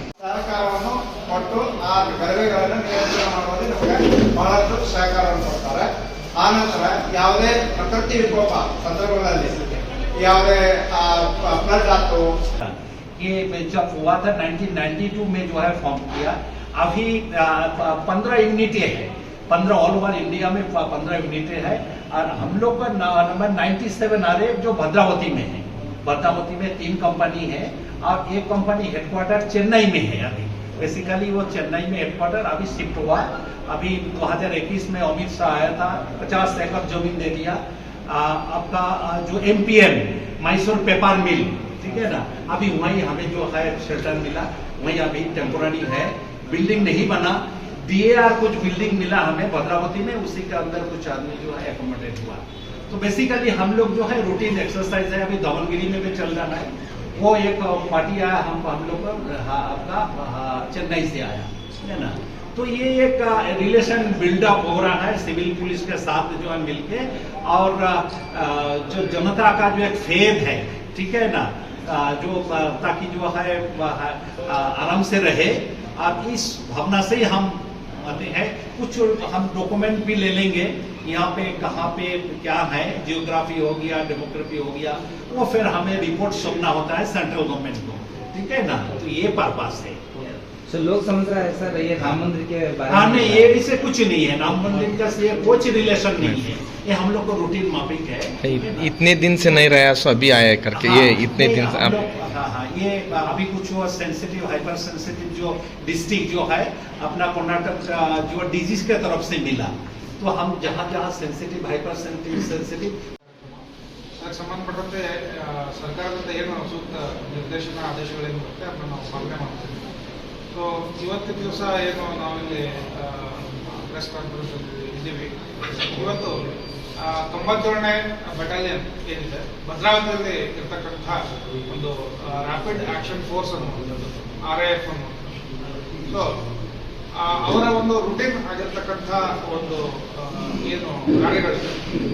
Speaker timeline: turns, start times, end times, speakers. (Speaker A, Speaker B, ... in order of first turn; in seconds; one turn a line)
Speaker A: 0.2-12.3
Speaker B: 12.6-90.0
Speaker C: 90.7-93.5
Speaker B: 92.9-98.9
Speaker D: 98.5-101.9
Speaker B: 100.7-112.9
Speaker E: 113.2-113.6
Speaker E: 114.2-119.8
Speaker E: 120.5-126.4
Speaker E: 127.0-133.9
Speaker E: 134.4-135.3
Speaker E: 136.1-136.4
Speaker E: 137.2-141.8